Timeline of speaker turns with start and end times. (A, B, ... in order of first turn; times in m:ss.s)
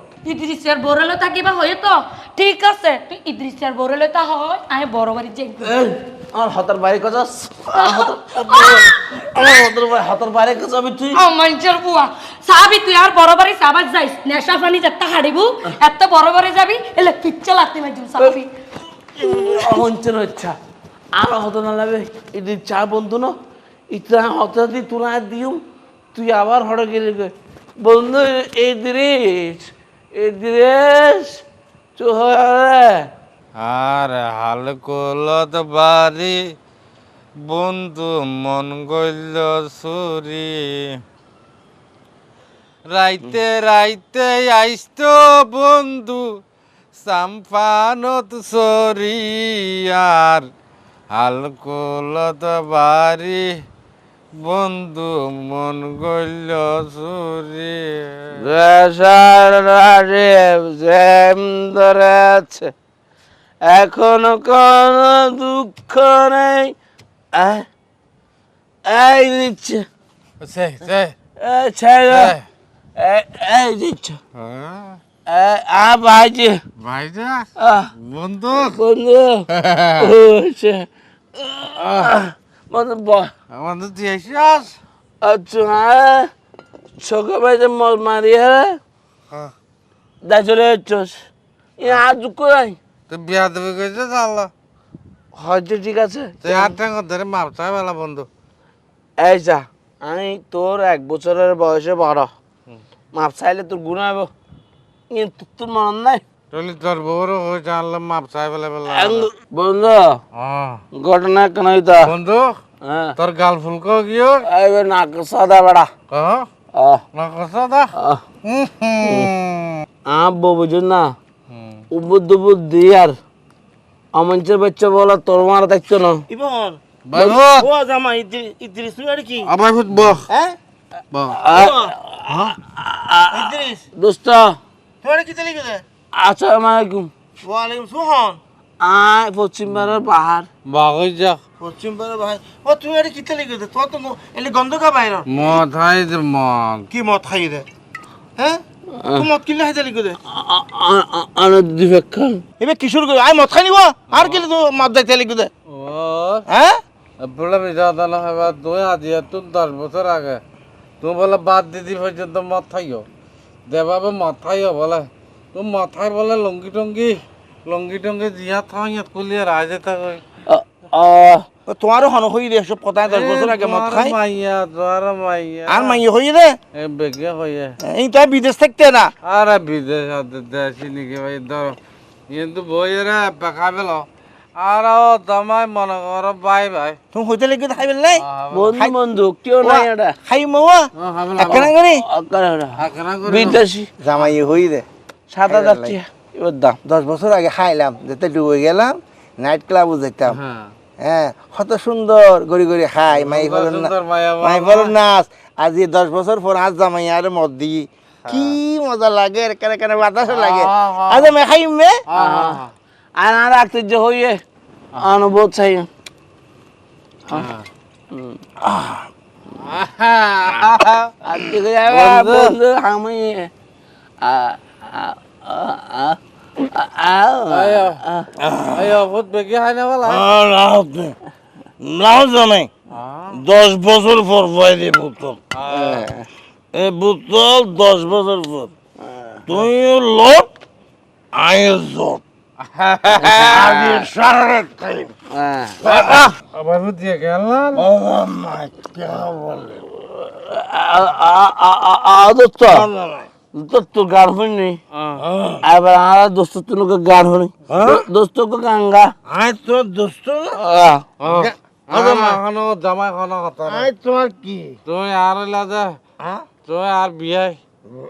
0:00.2-0:05.8 A
0:05.6-0:11.2 B
0:07.7-0:09.0 A
0:11.1-0:18.5 A
0:19.0-0:20.6 B
0:19.2-0:19.9 A
0:21.1-0:23.4 B
0:23.9-0:25.6 B
0:26.1-0:31.4 B
0:32.0-0:33.0 B
0:33.6-0:36.4 C
0:37.4-0:40.8 C
0:42.9-0:46.2 C
0:46.9-0:50.5 C
0:51.1-0:53.5 C
0:54.4-0:58.4 C
0:58.4-1:02.7 B
1:03.6-1:06.7 B
1:07.3-1:07.7 B
1:08.9-1:09.9 B
1:10.4-1:11.1 C
1:11.4-1:12.4 B
1:12.1-1:12.4 C
1:13.0-1:14.2 B
1:14.4-1:15.0 C
1:15.3-1:16.6 B
1:16.8-1:18.8 C
1:17.6-1:17.9 B
1:18.6-1:19.5 B
1:19.5-1:20.1 C
1:20.0-1:20.9 B
1:21.4-1:23.3 B
1:21.8-1:22.1 C
1:23.5-1:24.8 C
1:25.2-1:26.3 B
1:27.0-1:28.8 B
1:30.2-1:31.2 B
1:31.8-1:32.8 B
1:33.1-1:34.5 C
1:35.4-1:36.8 B
1:36.4-1:38.3 C
1:39.2-1:42.3 B
1:43.1-1:44.3 B
1:45.1-1:46.2 B
1:46.5-1:49.3 C
1:48.9-1:50.2 B
1:50.3-1:50.8 C
1:51.0-1:52.1 B
1:52.0-1:52.6 C
1:52.8-1:53.2 B
1:53.2-1:54.4 C
1:54.5-1:55.9 B
1:56.1-1:56.5 C
1:56.8-1:57.0 B
1:57.1-1:57.9 C
1:58.0-1:58.2 B
1:58.4-1:59.8 C
1:59.0-1:59.3 B
2:00.1-2:01.1 B
2:01.5-2:01.8 C
2:01.9-2:03.2 B
2:04.1-2:06.2 B
2:06.3-2:06.8 D
2:07.1-2:07.7 C
2:07.6-2:09.5 D
2:09.5-2:10.3 C
2:10.3-2:10.6 D
2:11.1-2:11.4 C
2:11.4-2:14.6 B
2:11.5-2:12.6 D
2:13.3-2:13.8 D
2:15.0-2:15.8 D
2:16.1-2:17.1 B
2:17.4-2:18.4 D
2:18.8-2:20.5 B
2:20.7-2:21.4 C
2:21.6-2:25.6 D
2:25.3-2:26.9 C
2:26.9-2:27.7 D
2:29.0-2:29.3 B
2:29.2-2:30.2 D
2:30.3-2:32.4 B
2:32.6-2:35.5 D
2:34.1-2:34.4 C
2:35.7-2:36.4 C
2:36.5-2:36.8 D
2:37.2-2:40.4 C
2:41.0-2:43.1 C
2:43.7-2:50.2 C
2:50.5-2:51.5 B
2:51.7-2:54.2 D
2:53.0-2:56.0 C
2:55.7-2:56.6 D
2:56.7-2:57.8 C
2:57.8-2:59.1 D
2:59.2-3:01.8 C
3:02.3-3:07.0 C
3:07.1-3:08.2 D
3:08.2-3:08.7 C
3:08.5-3:10.2 B
3:09.6-3:10.9 D
3:11.0-3:11.7 C
3:11.4-3:13.9 B
3:11.5-3:12.0 D
3:12.8-3:13.6 C
3:14.0-3:14.9 D
3:15.3-3:16.8 B
3:15.5-3:16.0 D
3:16.8-3:20.4 D
3:20.3-3:20.7 C
3:21.0-3:32.0 D
3:23.1-3:25.0 C
3:28.2-3:28.6 C
3:30.3-3:31.3 C
3:32.1-3:32.7 C
3:32.2-3:32.6 B
3:33.2-3:34.4 B
3:35.0-3:35.9 B
3:37.3-3:37.7 C
3:38.1-3:38.4 B
3:39.6-3:41.1 C
3:41.2-3:43.5 B
3:41.8-3:42.6 C
3:44.2-3:46.2 B
3:46.7-3:48.3 B
3:47.5-3:48.0 C
3:48.4-3:49.0 D
3:48.7-3:50.3 C
3:50.0-3:51.1 D
3:51.8-3:52.7 D
3:52.9-3:53.4 C
3:53.3-3:55.4 D
3:55.5-3:56.1 C
3:55.7-3:56.2 B
3:56.7-3:58.7 D
3:59.1-3:59.4 B
3:59.5-4:00.5 D
4:01.3-4:02.2 D
4:02.6-4:04.0 C
4:03.2-4:03.6 B
4:03.5-4:05.1 D
4:05.3-4:05.8 B
4:05.8-4:06.3 D
4:05.9-4:07.9 C
4:07.8-4:09.9 D
4:10.2-4:12.9 B
4:12.7-4:13.3 D
4:13.5-4:14.8 B
4:14.9-4:15.2 C
4:15.2-4:15.6 D
4:15.6-4:19.1 B
4:17.7-4:18.0 D
4:19.3-4:20.6 D
4:20.6-4:21.1 B
4:21.2-4:23.9 C
4:21.3-4:22.4 D
4:23.7-4:24.8 D
4:24.9-4:26.0 C
4:26.2-4:26.5 D
4:26.6-4:27.6 C